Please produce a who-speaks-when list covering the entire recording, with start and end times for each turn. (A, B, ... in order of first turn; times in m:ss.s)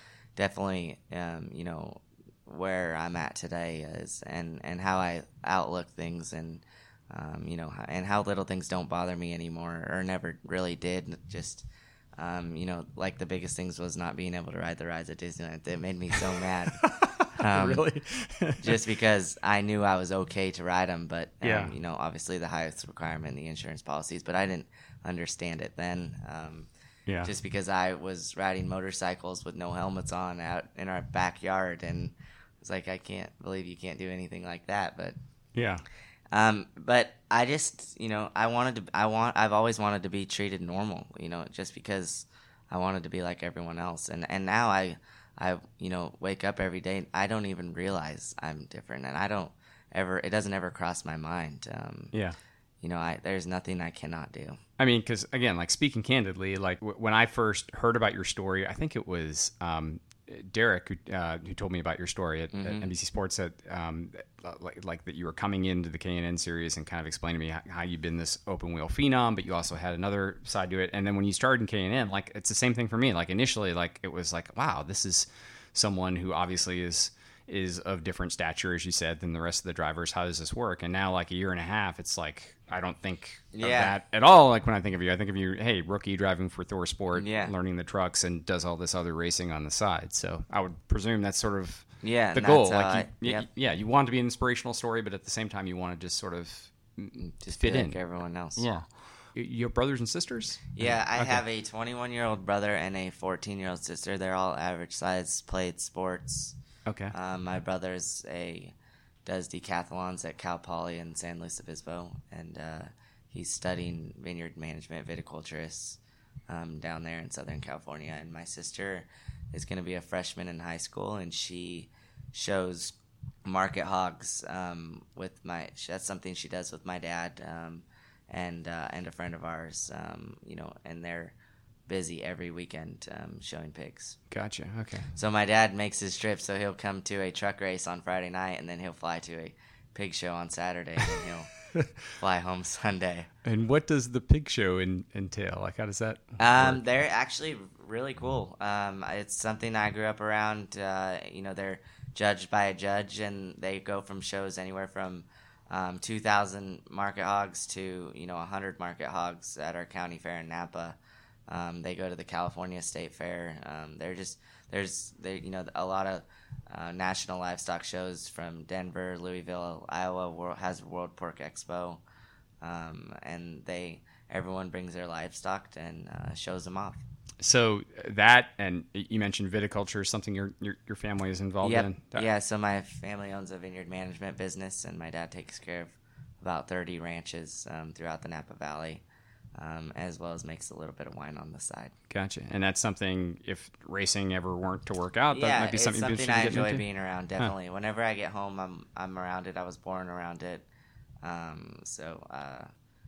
0:00.4-0:11.6 A
0:12.2-0:16.8 A
0:16.8-0:18.8 B
0:17.4-0:17.8 A
0:18.6-0:26.7 A
0:21.4-0:21.7 B
0:27.1-0:27.3 B
0:27.2-0:35.2 A
0:35.5-0:35.8 B
0:36.3-0:52.1 A
0:52.8-0:54.6 A
0:54.8-1:38.0 B
1:02.5-1:02.9 A
1:23.5-1:23.9 A
1:27.1-1:27.5 A
1:32.0-1:33.5 A
1:37.2-1:38.6 A
1:38.6-1:41.4 B
1:40.8-1:46.5 A
1:46.8-1:47.1 B
1:47.1-1:48.7 A
1:49.2-1:56.0 A
1:56.5-2:11.3 A
2:11.9-2:14.2 A
2:14.3-2:15.1 B
2:15.2-2:21.5 A
2:22.2-2:23.3 A
2:23.4-2:26.8 B
2:26.4-2:41.0 A
2:41.5-2:52.0 A
2:52.6-2:57.0 A
2:57.4-3:02.3 B
3:01.6-3:09.0 A
3:09.6-3:11.9 A
3:12.1-3:16.8 B
3:15.3-3:20.6 A
3:21.2-3:22.7 A